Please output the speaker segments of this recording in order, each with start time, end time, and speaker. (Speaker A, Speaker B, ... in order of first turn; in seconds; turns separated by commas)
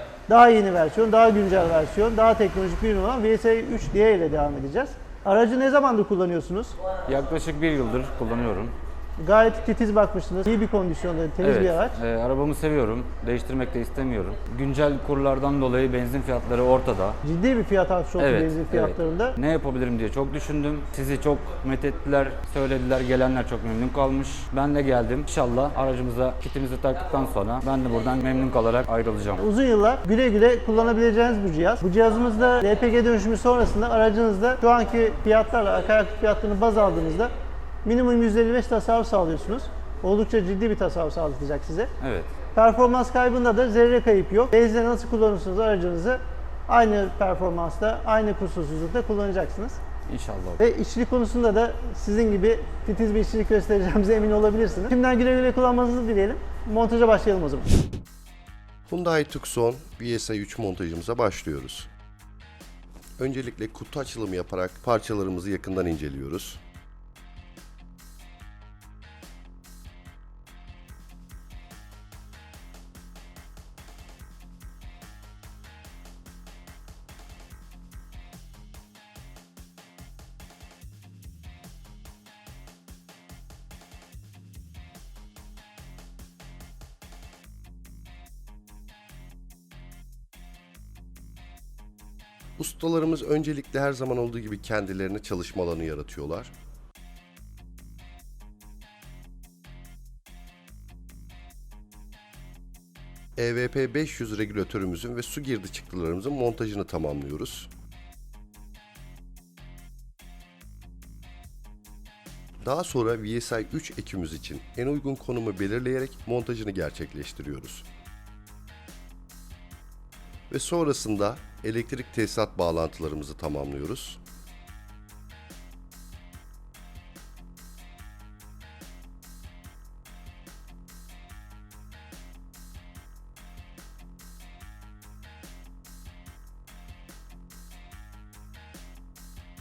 Speaker A: 0.3-6.8, Speaker B: 7.1-8.7, Speaker A: 9.2-12.0, Speaker B: 11.4-17.2, Speaker A: 17.2-19.4, Speaker B: 18.2-29.4, Speaker A: 29.4-37.3, Speaker A: 37.8-41.9, Speaker B: 42.0-42.3, Speaker A: 42.5-49.8, Speaker B: 50.1-50.6, Speaker A: 50.6-57.7, Speaker C: 58.9-61.9, Speaker C: 63.2-66.6, Speaker C: 92.6-96.5, Speaker C: 103.4-107.7, Speaker C: 112.6-117.8, Speaker C: 120.5-124.2